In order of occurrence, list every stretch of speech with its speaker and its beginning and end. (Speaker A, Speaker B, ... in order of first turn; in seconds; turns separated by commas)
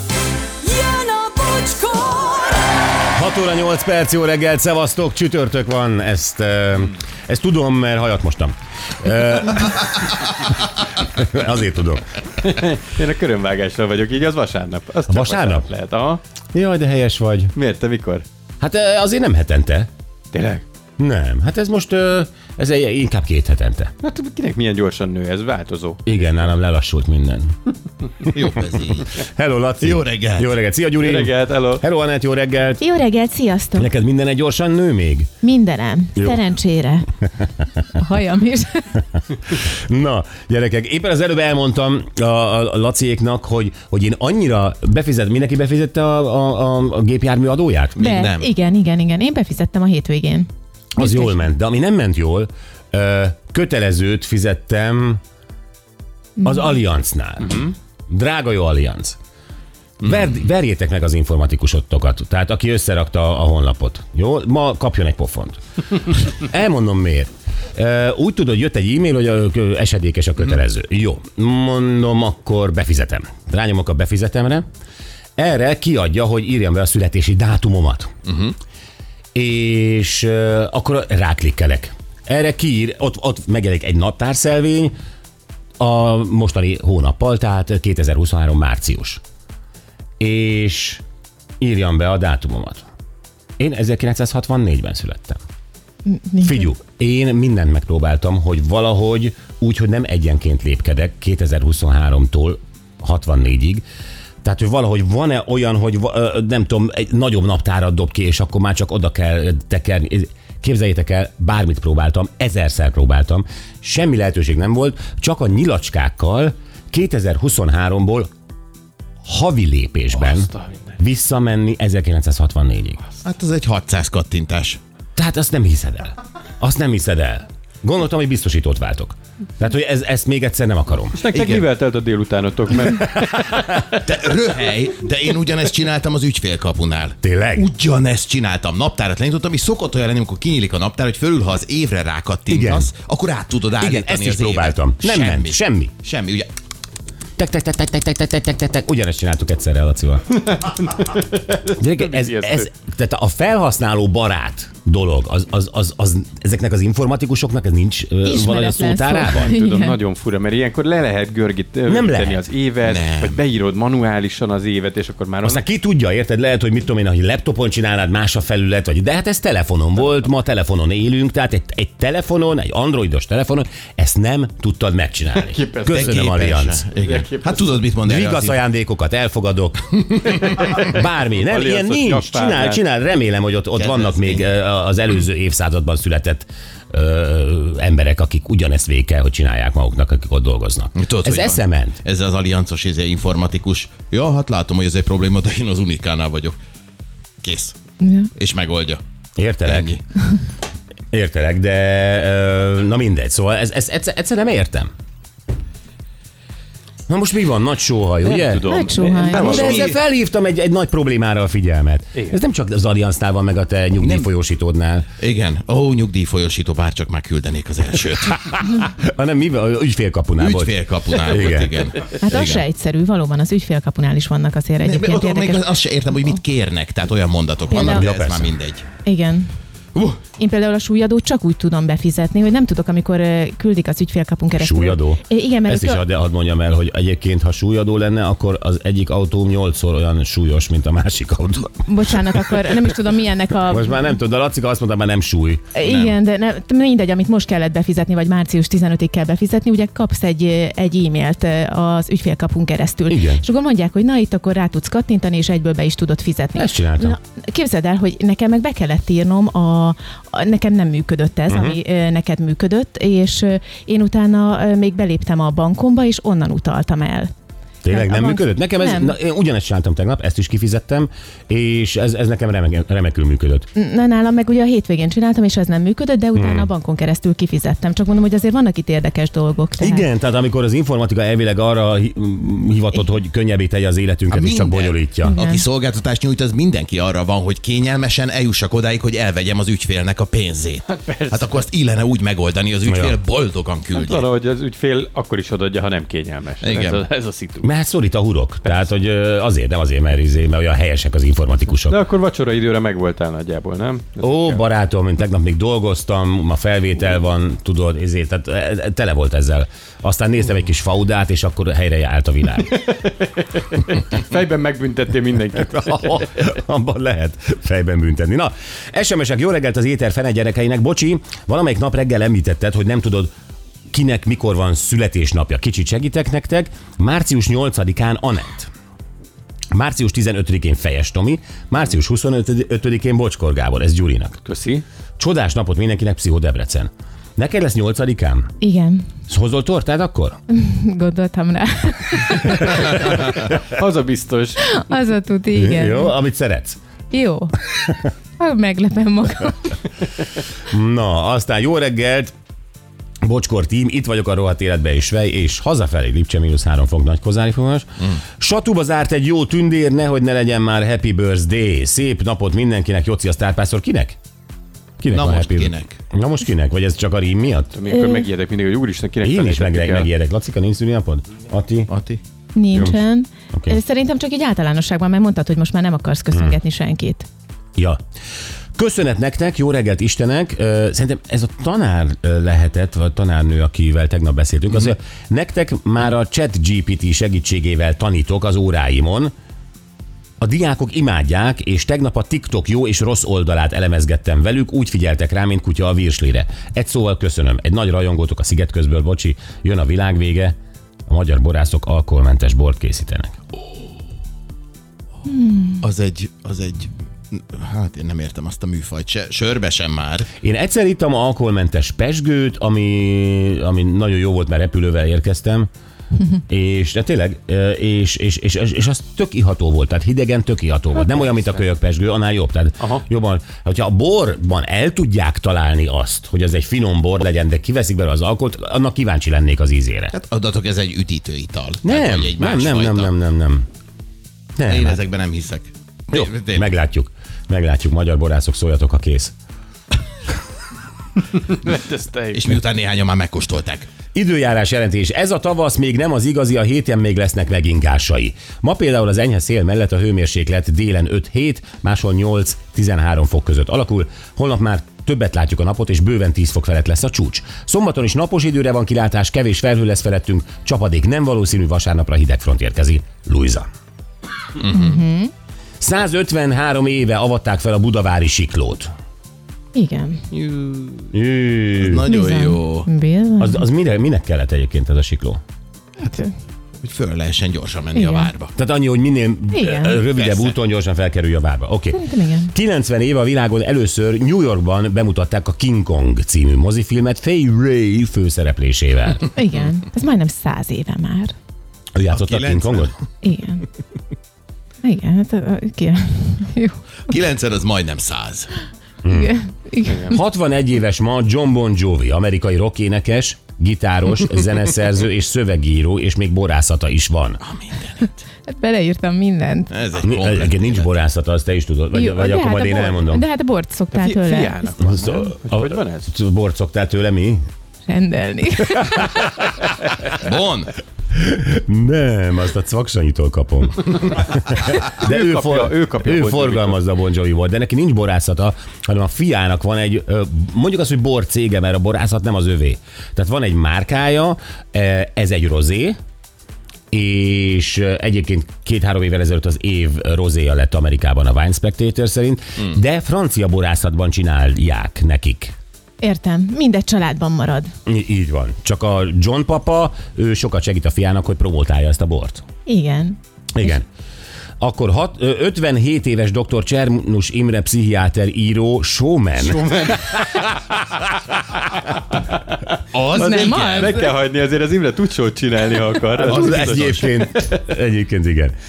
Speaker A: 0.6-2.9, Speaker B: 3.1-12.0, Speaker C: 12.4-16.2, Speaker B: 15.1-15.7, Speaker B: 16.5-17.5, Speaker C: 17.5-18.2, Speaker B: 18.6-19.9, Speaker C: 20.3-20.6, Speaker B: 21.0-23.9, Speaker C: 24.0-26.0, Speaker B: 26.0-27.5, Speaker D: 28.2-29.2, Speaker B: 29.2-32.8, Speaker D: 29.8-30.5, Speaker C: 31.0-31.8, Speaker E: 32.8-33.9, Speaker B: 33.7-35.3, Speaker E: 35.4-37.1, Speaker E: 37.8-38.9, Speaker B: 39.7-48.0, Speaker D: 48.0-48.5, Speaker E: 48.0-51.4, Speaker B: 51.0-55.2, Speaker E: 56.4-56.6, Speaker B: 56.4-59.2, Speaker B: 60.0-74.7, Speaker B: 75.4-78.1, Speaker D: 78.3-78.5, Speaker B: 79.3-84.9, Speaker B: 85.8-89.2, Speaker B: 90.2-91.0, Speaker B: 91.6-92.8, Speaker B: 93.6-95.4, Speaker E: 96.0-96.7, Speaker B: 96.4-103.8, Speaker B: 104.4-118.3, Speaker B: 119.2-123.0, Speaker C: 120.2-120.8, Speaker D: 123.2-124.8, Speaker B: 125.2-131.2, Speaker C: 131.1-134.0, Speaker D: 131.3-131.7, Speaker D: 134.0-146.5, Speaker B: 137.2-137.7, Speaker B: 142.5-142.9, Speaker B: 143.8-145.9, Speaker B: 147.4-150.2, Speaker C: 150.5-152.7, Speaker B: 151.8-159.5, Speaker E: 158.2-160.0, Speaker C: 159.3-165.6, Speaker B: 161.8-162.4, Speaker D: 162.8-163.4, Speaker B: 165.4-176.8, Speaker C: 175.3-177.8, Speaker D: 175.9-178.6, Speaker B: 178.0-192.0, Speaker C: 180.4-180.8, Speaker C: 181.3-182.8, Speaker D: 183.8-184.4, Speaker D: 191.0-196.6, Speaker D: 197.4-197.7, Speaker E: 198.0-198.3, Speaker D: 198.3-199.0, Speaker B: 199.4-199.9, Speaker D: 199.6-200.0, Speaker B: 201.1-204.9, Speaker B: 207.1-215.1, Speaker C: 208.2-209.9, Speaker E: 208.6-209.9, Speaker D: 209.3-210.0, Speaker D: 214.0-214.3, Speaker D: 215.2-218.5, Speaker B: 218.5-221.8, Speaker D: 220.4-222.6, Speaker E: 222.2-225.7, Speaker D: 224.8-228.8, Speaker E: 227.7-228.1, Speaker B: 227.8-228.5, Speaker E: 229.0-229.5, Speaker E: 230.4-236.0, Speaker B: 234.6-242.8, Speaker E: 241.8-244.0, Speaker B: 243.7-245.7, Speaker E: 245.7-267.3, Speaker D: 245.8-246.2, Speaker B: 253.1-253.4, Speaker B: 256.5-257.2, Speaker B: 261.5-261.8, Speaker B: 267.8-273.7, Speaker E: 267.9-269.1, Speaker E: 273.7-280.1, Speaker B: 276.3-276.7, Speaker B: 279.8-285.3, Speaker D: 284.3-294.2, Speaker E: 285.2-285.6, Speaker C: 290.9-291.6, Speaker B: 292.9-293.2, Speaker C: 293.9-297.7, Speaker D: 296.6-297.0, Speaker B: 297.6-302.0, Speaker C: 301.8-304.6, Speaker B: 304.2-312.8, Speaker C: 312.7-316.2, Speaker B: 315.7-323.3, Speaker B: 323.9-328.7, Speaker B: 329.7-334.4, Speaker C: 334.4-334.8, Speaker B: 335.2-338.5, Speaker E: 338.6-339.1, Speaker B: 339.3-340.4, Speaker E: 340.5-343.3, Speaker C: 343.3-344.6, Speaker E: 344.6-346.1, Speaker B: 345.5-346.8, Speaker E: 347.1-347.6, Speaker E: 348.4-349.8, Speaker B: 350.7-352.3, Speaker B: 353.2-364.2, Speaker B: 365.0-367.7, Speaker D: 365.1-366.0, Speaker C: 367.7-370.1, Speaker E: 367.9-368.2, Speaker B: 369.2-371.9, Speaker D: 371.9-372.2, Speaker E: 372.5-377.3, Speaker B: 372.7-373.0, Speaker B: 373.5-373.8, Speaker B: 378.8-389.3, Speaker B: 390.4-400.5, Speaker B: 401.1-403.4, Speaker E: 405.2-405.8, Speaker D: 405.8-410.3, Speaker B: 410.4-415.7, Speaker B: 416.5-430.1, Speaker C: 421.0-421.5, Speaker D: 430.1-433.1, Speaker B: 431.8-433.6, Speaker B: 434.6-435.0, Speaker D: 434.7-436.7, Speaker B: 436.1-439.3, Speaker C: 441.3-442.6, Speaker D: 442.3-443.9, Speaker B: 444.1-463.6, Speaker D: 464.6-464.9, Speaker E: 464.7-465.3, Speaker B: 465.8-468.9, Speaker E: 469.7-470.2, Speaker D: 470.3-471.1, Speaker B: 471.1-472.1, Speaker D: 471.8-472.9, Speaker E: 472.1-473.6, Speaker B: 473.4-475.4, Speaker E: 476.0-476.3, Speaker D: 476.8-478.5, Speaker E: 477.9-478.3, Speaker B: 478.5-489.3, Speaker E: 479.5-480.0, Speaker D: 480.1-480.6, Speaker E: 481.9-482.5, Speaker E: 489.3-491.3, Speaker B: 491.9-492.9, Speaker D: 492.1-492.9, Speaker E: 493.2-493.6, Speaker E: 494.8-496.8, Speaker D: 497.1-498.5, Speaker B: 499.0-499.3, Speaker E: 499.1-500.1, Speaker B: 500.1-507.4, Speaker D: 507.4-508.2, Speaker E: 508.4-509.7, Speaker D: 509.7-510.9, Speaker B: 510.0-513.2, Speaker E: 511.9-514.6, Speaker C: 513.9-516.1, Speaker B: 514.8-517.4, Speaker E: 517.9-519.4, Speaker D: 520.1-520.7, Speaker B: 521.1-536.0, Speaker C: 525.0-526.8, Speaker B: 536.9-545.5, Speaker E: 546.0-547.7, Speaker B: 547.9-552.4, Speaker E: 552.6-553.2, Speaker B: 553.5-553.8, Speaker B: 554.6-560.6, Speaker C: 559.4-560.6, Speaker D: 562.9-564.0, Speaker C: 563.1-567.5, Speaker E: 563.1-563.9, Speaker D: 566.1-567.1, Speaker B: 566.2-568.5